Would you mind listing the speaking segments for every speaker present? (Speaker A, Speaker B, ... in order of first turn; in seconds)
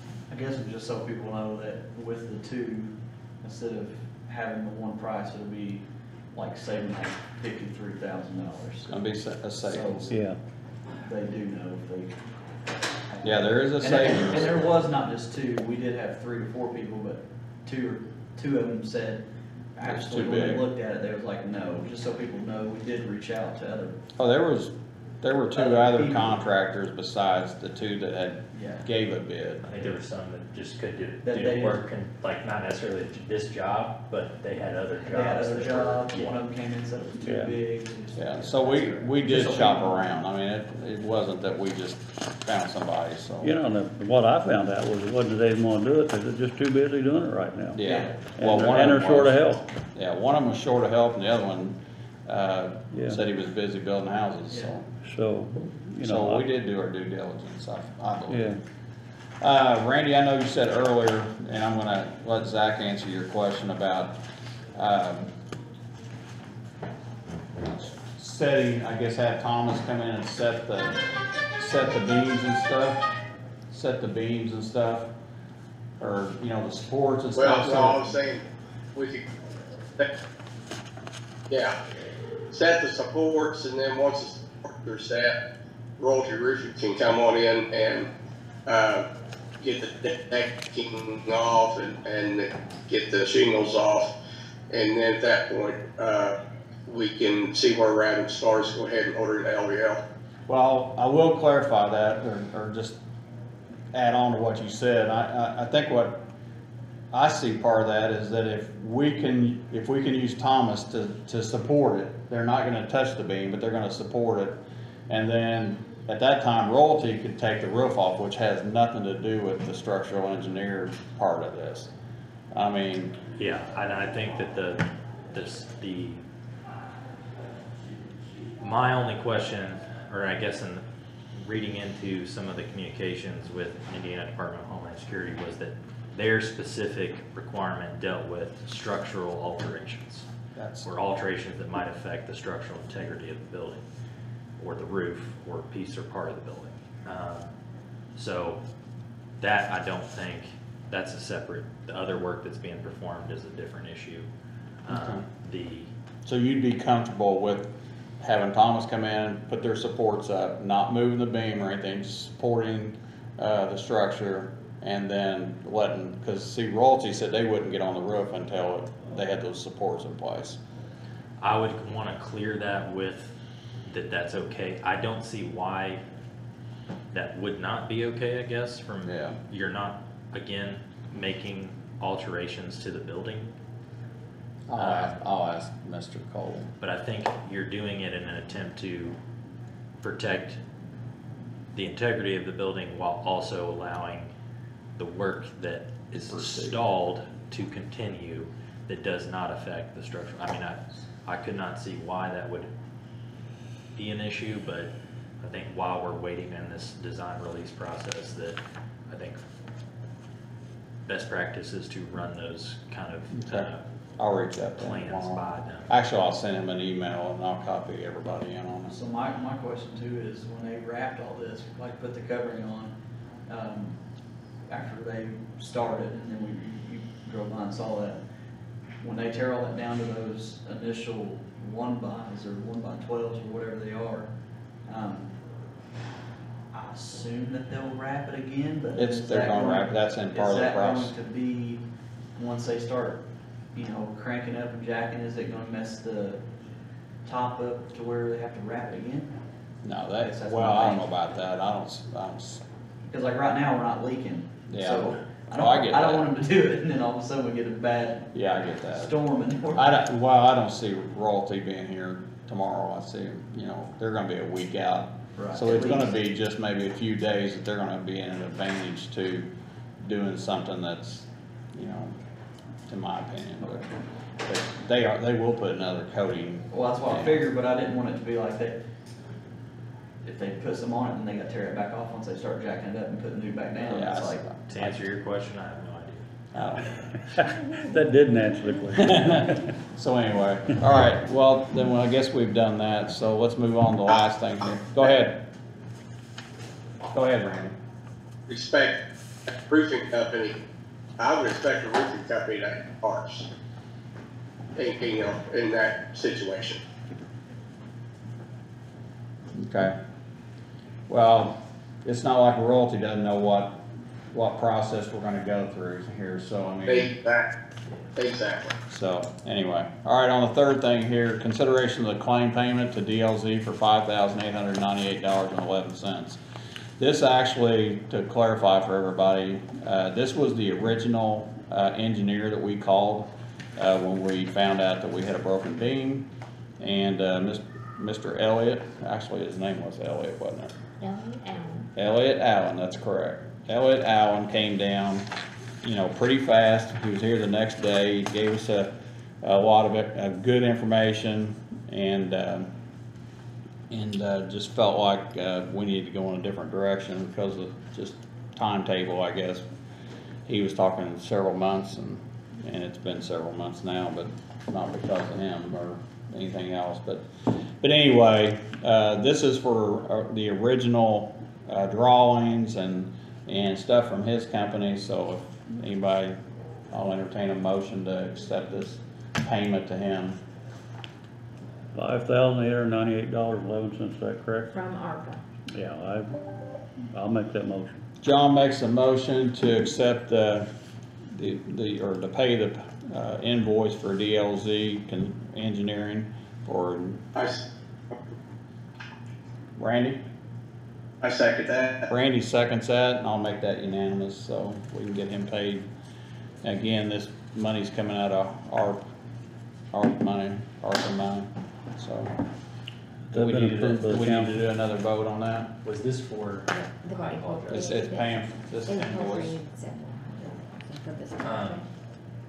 Speaker A: 0.3-8.9, 9.7-10.1, 11.0-12.2, 13.1-19.2, 19.7-24.0, 25.5-26.4, 28.5-28.8, 31.2-31.8, 35.0-40.0, 47.8-48.2, 218.9-222.9, 223.5-224.0, 224.7-228.2, 229.0-234.3, 234.8-235.4, 236.7-241.8, 242.3-246.4, 247.2-249.3, 250.2-251.1, 253.1-258.3, 258.9-259.9, 265.4-266.1, 276.7-278.8, 280.2-284.4
Speaker B: 8.9-10.2, 13.2-14.6, 19.8-20.6, 24.2-29.7, 38.1-43.5, 47.7-54.9, 56.0-58.6, 59.4-64.2, 64.7-65.3, 67.6-73.1, 73.7-75.1, 76.0-78.2, 100.5-103.0, 103.9-106.2, 107.1-121.9, 122.5-123.2, 140.6-140.9, 154.9-155.2, 156.2-170.6, 179.1-179.4, 184.7-186.7, 196.3-196.8, 213.3-219.0, 238.9-241.1, 249.8-252.6, 254.7-256.3, 258.3-259.1, 259.7-269.5, 270.0-272.2, 272.9-277.4, 283.9-284.9, 286.5-287.0, 288.9-295.4, 297.1-297.8, 309.5-310.0, 311.1-317.1, 318.9-326.4, 327.0-336.3, 336.8-340.7, 341.9-345.3, 345.8-352.7, 353.9-359.6, 360.4-376.4, 376.9-380.4, 388.2-390.7, 391.3-397.3, 399.8-400.2, 402.1-405.9, 406.6-409.0, 409.9-412.4, 413.3-415.7, 417.7-419.6
Speaker C: 10.1-10.4, 37.2-37.5, 43.4-49.6, 52.9-53.2, 55.0-56.5, 58.3-58.6, 287.3-289.7, 381.9-384.7, 385.7-386.4, 387.1-388.0, 413.3-414.6
Speaker D: 29.6-36.4, 123.3-126.2, 128.6-140.3, 140.8-143.8, 144.6-147.5, 148.1-148.6, 149.4-154.3, 154.8-155.9, 171.4-173.3, 173.8-176.0, 177.1-183.5, 184.8-185.1, 186.8-189.2, 190.0-190.6, 191.7-194.3, 195.0-202.7, 203.9-209.4, 211.1-213.8, 214.8-215.9, 284.7-286.2, 415.8-417.9, 421.4-421.8
Speaker E: 77.3-78.4, 78.9-79.2, 81.5-81.7, 82.5-85.4, 86.0-88.1, 88.7-89.0, 89.6-94.1, 94.7-96.3, 96.9-100.0, 298.5-300.6, 301.2-303.5, 304.8-306.8, 316.9-317.5, 318.1-318.7, 397.3-398.2, 401.2-402.1
Speaker F: 341.0-341.9, 384.7-385.4, 416.7-421.9